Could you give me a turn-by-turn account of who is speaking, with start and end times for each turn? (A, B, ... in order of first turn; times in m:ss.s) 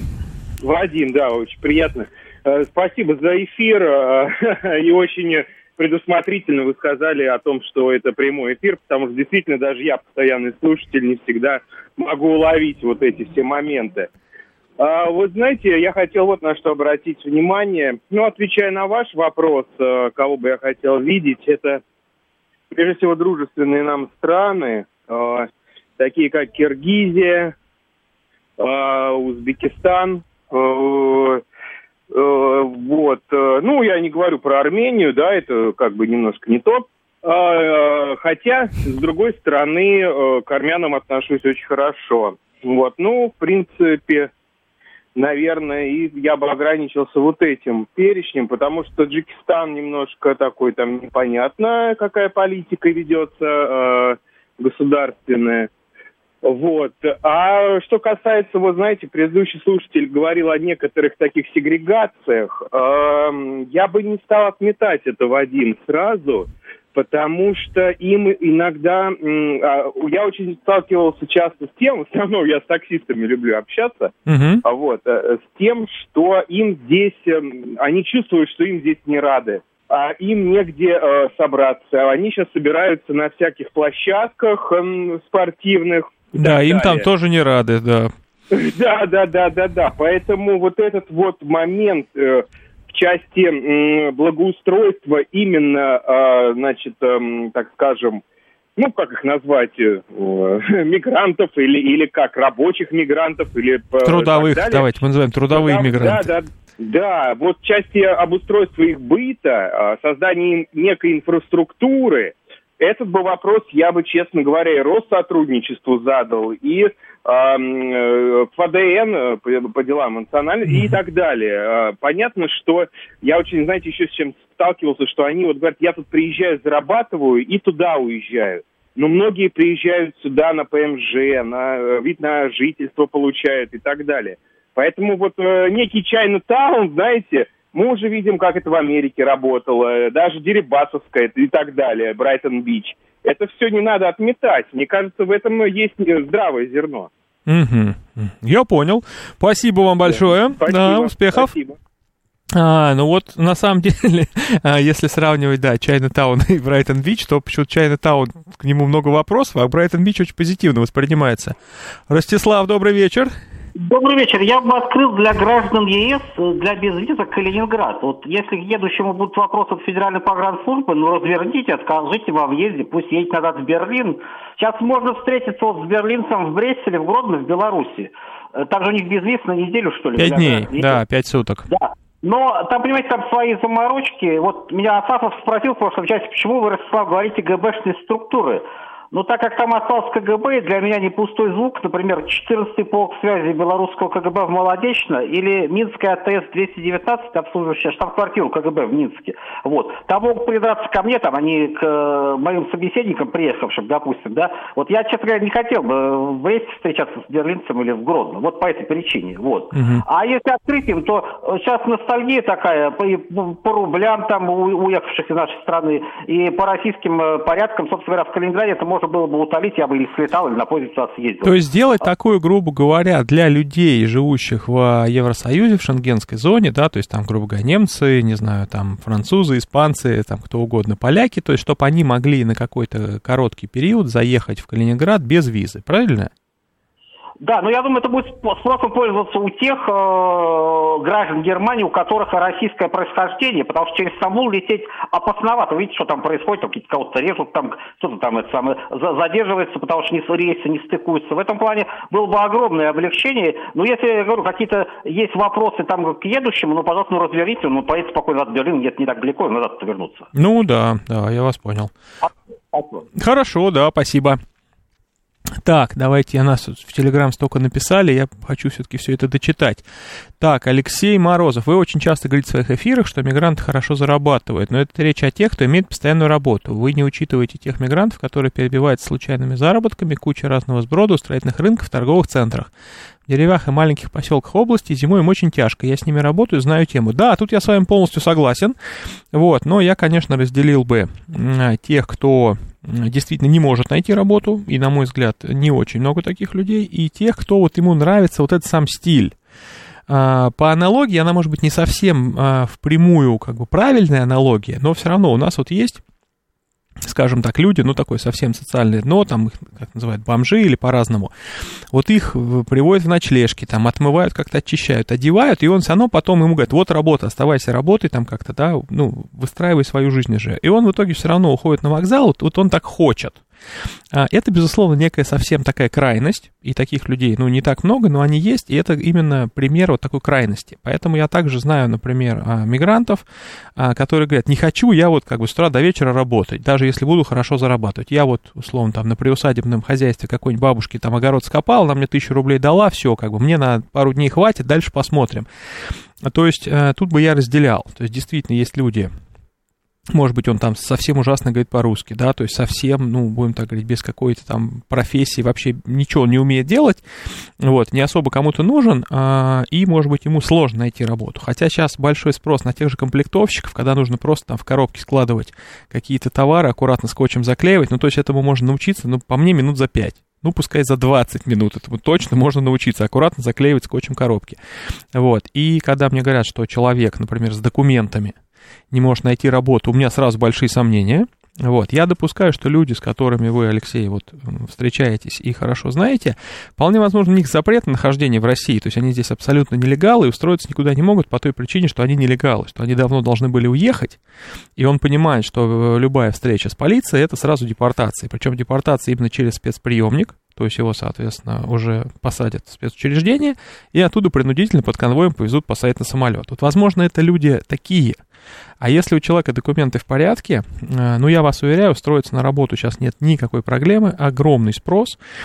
0:00.6-0:14.1 A
0:14.8-0:21.8 A
0:22.7-0:27.5 A
0:28.6-0:31.4 A
0:32.1-0:44.3 A
0:45.2-0:55.7 A
0:56.4-1:14.1 A
1:14.3-1:14.6 B
1:14.6-1:27.1 A
1:26.4-1:28.1 B
1:28.5-1:38.2 A
1:38.8-1:44.9 A
1:44.0-1:46.3 B
1:45.5-2:27.1 A
2:27.5-2:31.5 B
2:30.0-2:31.8 A
2:32.5-2:41.6 B
2:42.1-2:43.3 B
2:43.8-3:01.0 C
3:00.2-3:01.7 B
3:01.7-3:41.5 C
3:29.7-3:30.0 B
3:41.4-3:56.3 B
3:57.4-4:20.3 C
4:20.3-4:21.9 B
4:22.7-4:23.0 C
4:23.2-4:24.4 B
4:25.6-4:29.8 B
4:30.4-4:42.7 B
4:43.3-4:48.8 B
4:49.3-4:59.4 B
5:00.1-5:06.0 B
5:07.0-5:11.3 B
5:11.9-5:23.4 B
5:24.1-5:33.2 B
5:33.8-5:45.5 B
5:46.2-5:49.1 B
5:50.1-5:57.0 B
5:57.6-6:14.6 B
6:15.1-6:18.4 B
6:18.9-6:34.2 B
6:34.8-6:48.2 B
6:48.8-6:55.2 B